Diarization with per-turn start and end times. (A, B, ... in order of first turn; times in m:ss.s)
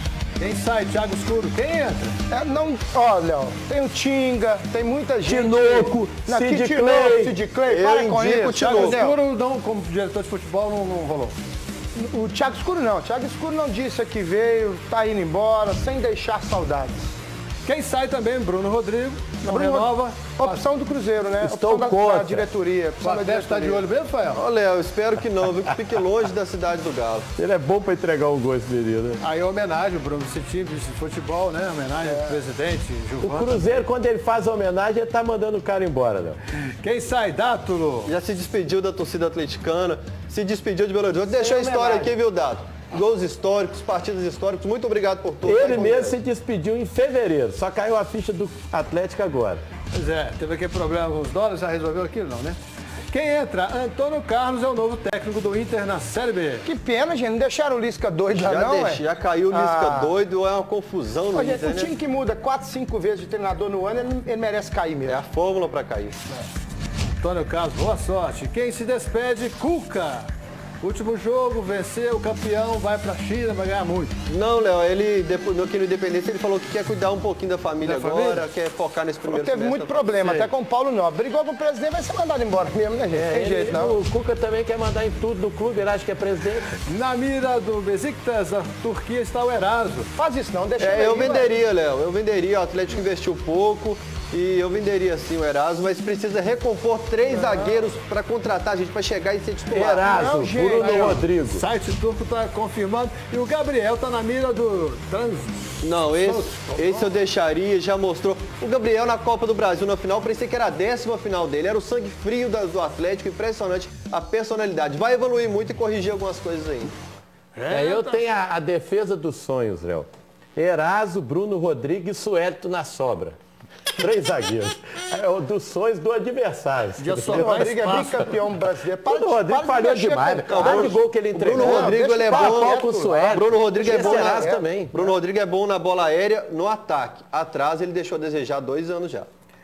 0:00.4-0:02.2 A
0:02.3-0:09.2 B
0:05.2-0:07.4 C
0:07.7-0:09.0 D
0:08.6-0:11.4 A
0:12.0-0:17.1 B
0:17.6-0:20.6 A
0:19.4-0:23.8 B
0:21.4-0:22.5 C
0:23.0-0:24.4 A
0:24.3-0:27.3 D
0:27.4-0:29.2 C
0:29.2-0:33.6 A
0:33.2-0:36.4 C
0:36.8-0:38.1 A
0:38.1-0:46.2 D
0:41.4-0:42.1 B
0:45.4-0:49.6 C
0:49.9-0:52.6 A
0:53.1-0:56.7 A
0:56.6-1:00.1 B
0:58.3-1:01.9 D
1:01.3-1:05.2 B
1:05.1-1:06.2 D
1:07.1-1:10.3 A
1:10.8-1:14.2 A
1:14.3-1:20.3 D
1:17.8-1:18.5 A
1:19.3-1:24.0 B
1:23.1-1:26.7 C
1:26.8-1:30.1 A
1:30.2-1:31.5 B
1:30.8-1:40.3 D
1:37.3-1:37.8 B
1:39.7-1:41.6 C
1:40.0-1:41.2 B
1:40.8-1:47.1 A
1:45.8-1:57.0 D
1:57.6-1:58.2 A
1:57.7-2:03.4 C
2:04.0-2:08.3 C
2:07.0-2:08.2 A
2:07.3-2:11.0 B
2:09.0-2:15.1 C
2:10.5-2:19.3 D
2:11.6-2:14.6 B